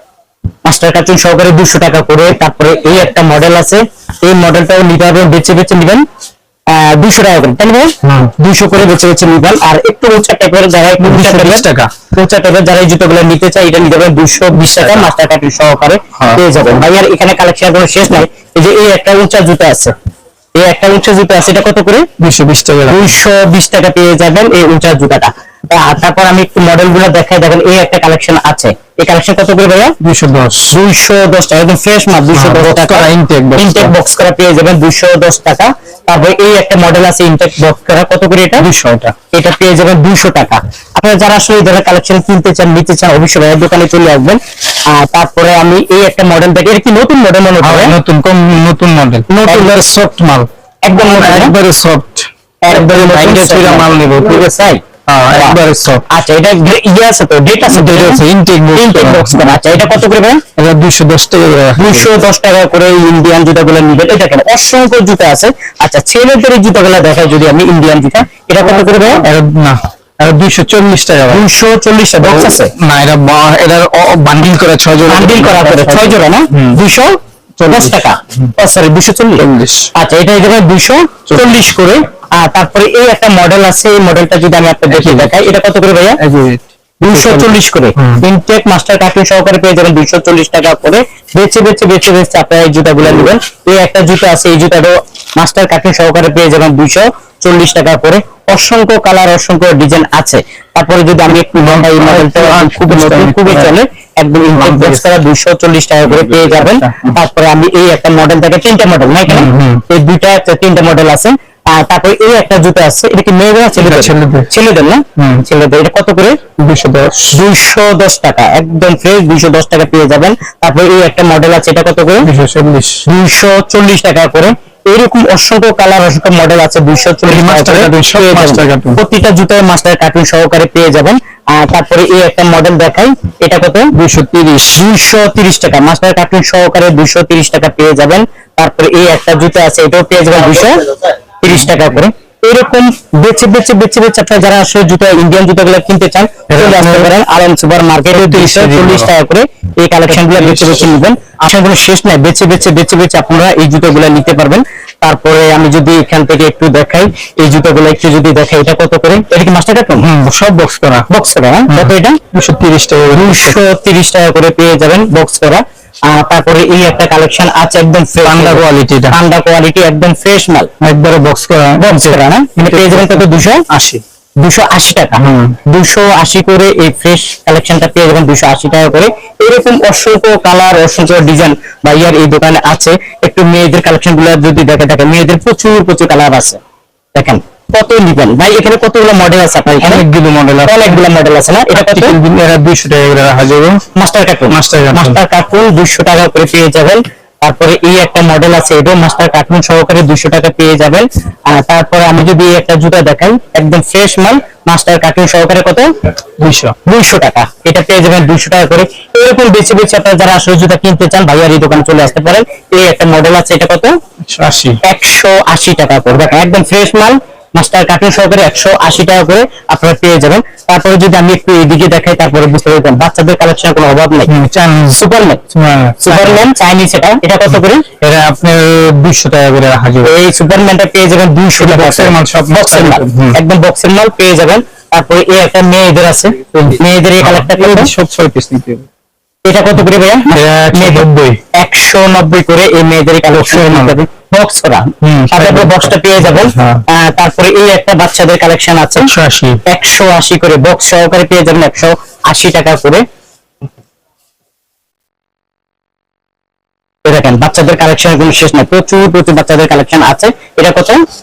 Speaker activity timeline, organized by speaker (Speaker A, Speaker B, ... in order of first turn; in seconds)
Speaker A: 0.7-6.0, 6.7-19.9, 20.6-22.1, 22.9-29.9, 30.7-38.7, 39.3-47.9, 49.3-49.8, 50.8-51.5, 52.6-55.6, 56.1-58.2, 58.7-60.4, 61.8-69.3, 71.3-72.7, 75.1-86.2, 87.0-116.4, 117.3-122.3, 123.1-133.9, 134.8-160.1, 161.1-162.2, 163.1-170.7, 171.8-173.7, 174.4-186.6, 187.2-190.0, 190.7-192.2, 193.9-205.9, 206.9-213.9, 214.8-224.3, 224.9-225.4, 226.0-227.9, 230.0-237.9, 239.4-249.1, 249.7-253.1, 257.1-261.0
Speaker B: 8.0-8.3, 11.0-11.9, 14.7-15.1, 16.2-16.4, 22.2-23.1, 30.0-30.7, 32.3-33.9, 38.6-39.1, 47.6-54.4, 55.1-56.0, 57.7-59.8, 60.6-62.1, 69.0-71.4, 72.2-76.8, 77.6-78.5, 79.4-79.9, 84.9-85.3, 86.2-88.2, 101.6-103.8, 104.5-105.1, 106.0-107.1, 109.3-109.8, 113.8-114.5, 115.2-115.4, 116.6-117.4, 122.2-123.0, 127.3-129.0, 133.9-134.8, 146.5-147.1, 148.1-149.1, 150.1-150.9, 160.0-161.1, 161.7-163.6, 168.2-169.2, 170.8-174.0, 175.2-175.6, 189.8-191.0, 191.8-193.8, 194.5-195.2, 206.4-206.8, 214.2-214.8, 224.3-225.0, 225.5-226.4, 228.0-230.1, 231.6-233.4, 236.5-238.9, 240.3-241.4, 243.3-244.0, 245.0-245.8, 246.3-246.8, 249.0-249.6